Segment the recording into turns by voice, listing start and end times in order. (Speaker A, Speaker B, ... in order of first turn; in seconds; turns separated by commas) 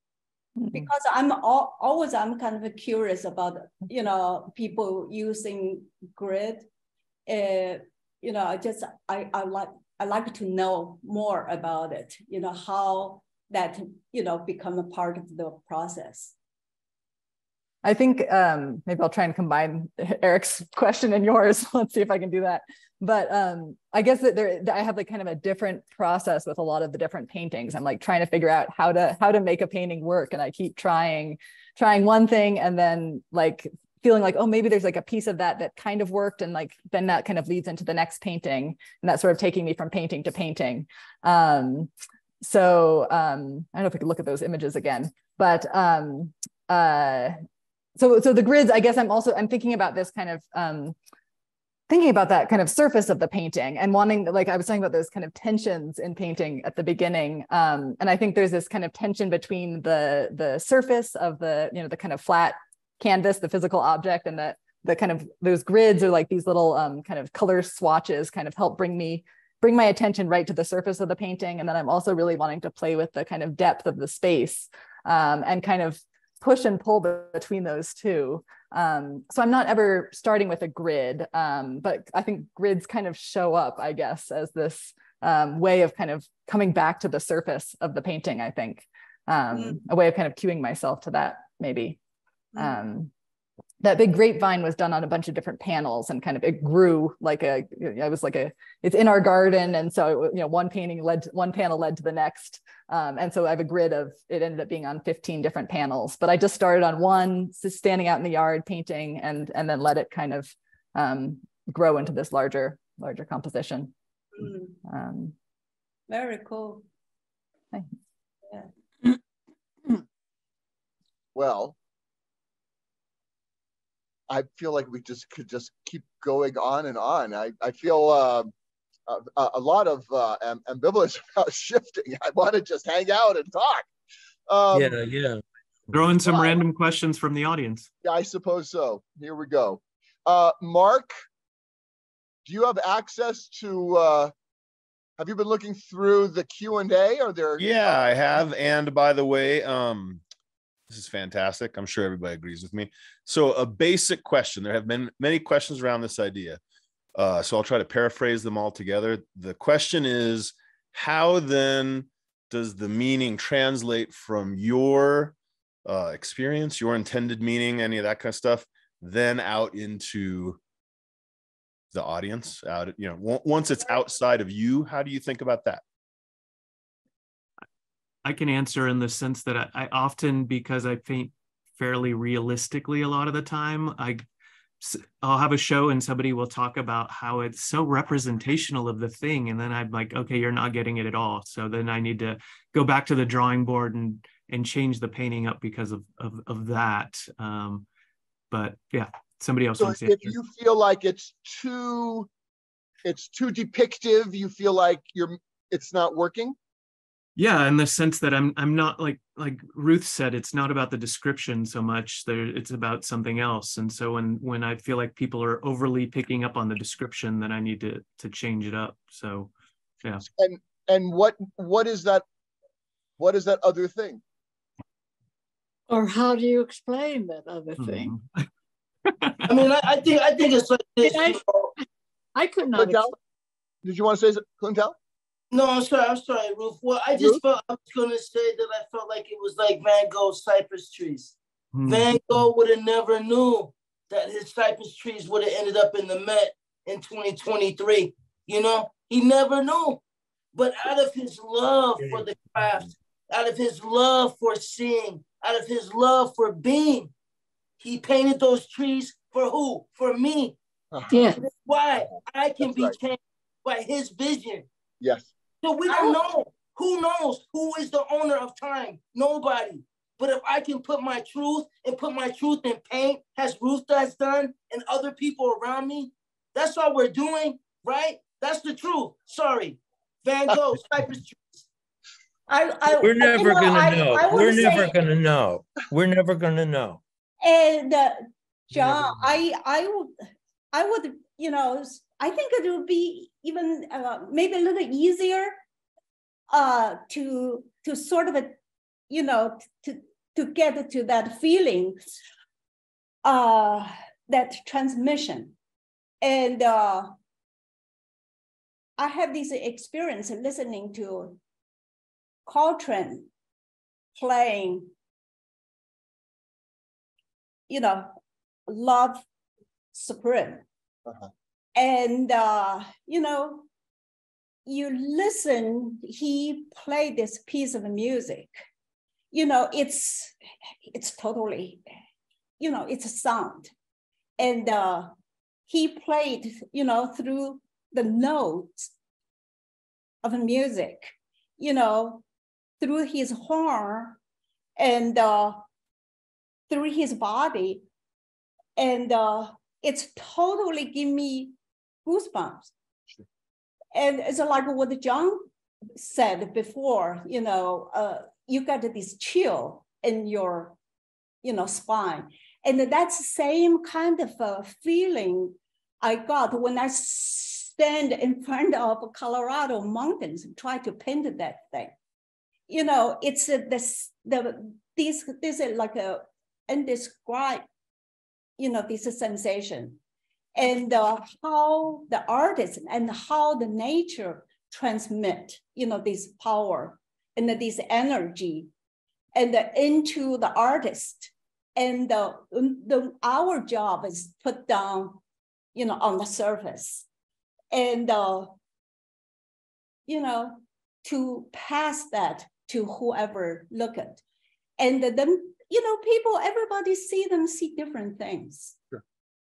Speaker A: 0.6-0.9, Speaker B: 0.7-6.7, Speaker B: 7.3-16.3, Speaker A: 17.8-41.9, Speaker A: 42.4-47.4, Speaker A: 48.0-51.0, Speaker A: 51.9-92.0, Speaker B: 89.5-89.8, Speaker B: 92.5-92.8, Speaker A: 92.6-93.1, Speaker A: 93.8-113.9, Speaker B: 114.4-114.8, Speaker A: 114.8-115.3, Speaker B: 116.1-116.8, Speaker C: 121.3-121.8, Speaker C: 124.3-128.5, Speaker C: 129.1-133.9, Speaker C: 134.5-135.0, Speaker D: 134.7-136.0, Speaker E: 135.9-137.9, Speaker C: 136.3-136.6, Speaker C: 138.0-141.1, Speaker C: 142.4-144.3, Speaker C: 145.2-148.4, Speaker F: 147.6-150.2, Speaker F: 150.9-156.6, Speaker F: 157.1-170.6, Speaker F: 171.9-175.8, Speaker E: 178.2-184.2, Speaker E: 184.8-197.8, Speaker E: 198.5-200.4, Speaker C: 199.8-202.3, Speaker C: 203.0-206.6, Speaker E: 207.3-219.5, Speaker C: 220.4-222.2, Speaker C: 223.2-224.2, Speaker G: 225.9-228.1, Speaker E: 227.8-228.5, Speaker E: 229.1-229.6, Speaker H: 229.5-231.7, Speaker G: 231.0-231.8, Speaker G: 232.3-233.1, Speaker C: 232.7-233.2, Speaker C: 233.8-234.9, Speaker H: 235.5-241.3, Speaker E: 241.7-242.2, Speaker H: 241.9-250.0, Speaker H: 250.5-257.1, Speaker H: 257.8-260.6, Speaker G: 261.1-261.4, Speaker H: 261.2-264.7, Speaker C: 262.6-262.9, Speaker C: 265.0-265.3, Speaker H: 265.6-281.6, Speaker B: 265.9-266.2, Speaker B: 282.5-284.9, Speaker D: 283.0-287.0, Speaker B: 287.4-290.1, Speaker C: 288.8-289.0, Speaker B: 290.7-295.6, Speaker B: 296.5-298.6, Speaker B: 299.1-302.1, Speaker B: 303.2-305.5, Speaker B: 306.2-307.1, Speaker B: 309.0-311.4, Speaker B: 312.4-313.3, Speaker B: 314.1-314.9, Speaker B: 317.7-318.1, Speaker B: 318.7-319.2, Speaker B: 319.9-320.6, Speaker B: 321.8-323.7, Speaker B: 324.6-328.6, Speaker B: 329.3-330.3, Speaker B: 330.9-331.8, Speaker B: 332.6-333.7, Speaker B: 334.4-335.1, Speaker B: 335.7-338.9, Speaker B: 340.2-342.2, Speaker B: 342.8-344.2, Speaker B: 344.8-345.6, Speaker B: 346.7-347.8, Speaker B: 348.8-352.7, Speaker B: 353.9-360.8, Speaker B: 361.4-371.9, Speaker B: 372.7-377.6, Speaker B: 378.6-380.0, Speaker B: 380.6-388.7, Speaker B: 389.3-395.2, Speaker B: 395.7-397.0, Speaker B: 397.7-398.6, Speaker B: 400.1-404.2, Speaker B: 404.8-408.8